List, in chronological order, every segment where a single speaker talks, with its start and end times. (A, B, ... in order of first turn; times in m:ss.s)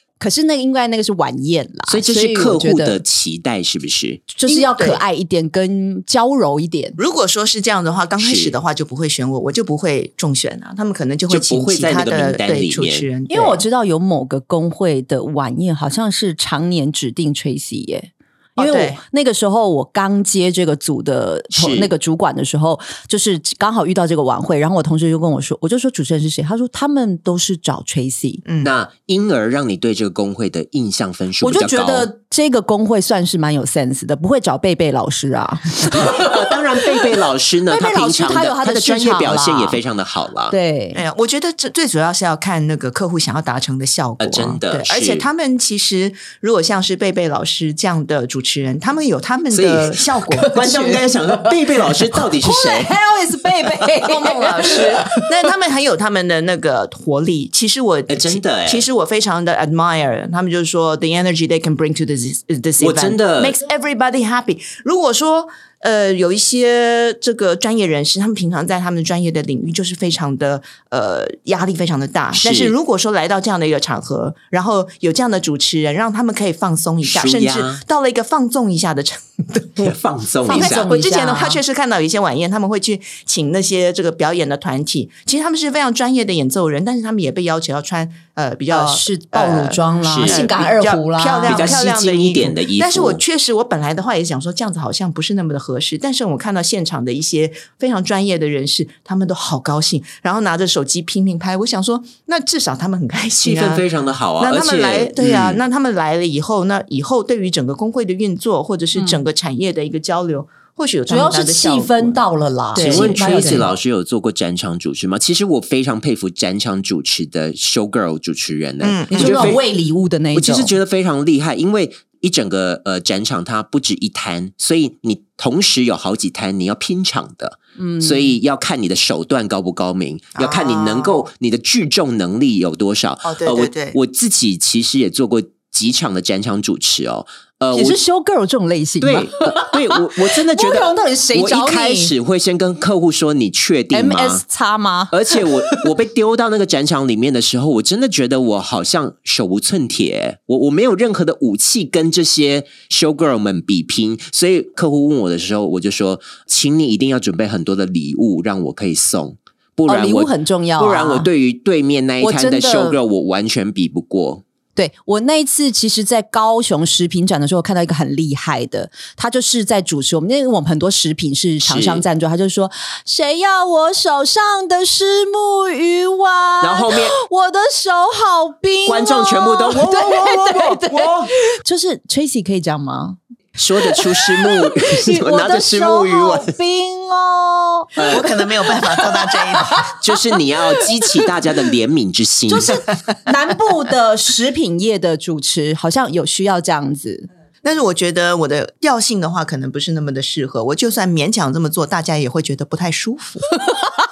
0:00.2-0:03.0 A
0:01.9-0:04.3 B
0:04.3-0:07.0 A
0:04.5-0:05.0 C
0:07.0-0:13.6 C
0:08.2-0:08.6 B
0:11.3-0:13.1 B
0:13.3-0:28.4 A
0:18.6-0:19.0 C
0:21.5-0:21.9 B
0:28.4-0:28.8 C
0:28.6-0:32.1 B
0:31.4-0:36.4 A
0:35.9-0:40.6 B
0:37.7-0:39.8 A
0:40.5-0:41.0 A
0:40.9-0:50.6 C
0:44.2-0:45.2 B
0:49.5-0:53.0 B
0:50.3-0:55.2 A
0:53.6-0:53.9 B
0:54.0-1:19.9 C
0:58.1-0:58.9 B
1:02.8-1:03.6 B
1:12.4-1:12.8 B
1:17.0-1:17.8 B
1:19.8-1:21.0 B
1:20.5-1:21.6 A
1:20.5-1:43.9 C
1:28.7-1:31.8 A
1:30.0-1:30.4 B
1:31.5-1:33.2 B
1:43.4-1:45.6 B
1:44.4-1:52.2 C
1:49.0-1:49.2 A
1:51.1-1:53.7 A
1:52.7-1:53.6 C
1:52.8-1:59.6 B
1:58.8-1:59.6 C
1:59.1-2:00.7 A
2:00.3-2:18.0 B
2:07.8-2:08.3 A
2:10.4-2:11.2 C
2:13.2-2:14.0 C
2:17.7-2:22.1 A
2:19.0-2:24.4 B
2:23.9-2:25.9 A
2:25.1-2:44.4 B
2:39.9-2:41.3 A
2:42.2-2:43.0 A
2:44.8-3:03.2 A
2:51.6-2:52.0 B
2:56.6-2:57.2 B
2:58.9-3:01.3 B
3:03.6-3:06.5 B
3:03.8-3:10.0 A
3:08.0-3:08.3 B
3:08.0-3:09.9 C
3:09.9-3:12.8 B
3:10.8-3:11.2 A
3:12.5-3:17.3 A
3:17.6-3:23.6 C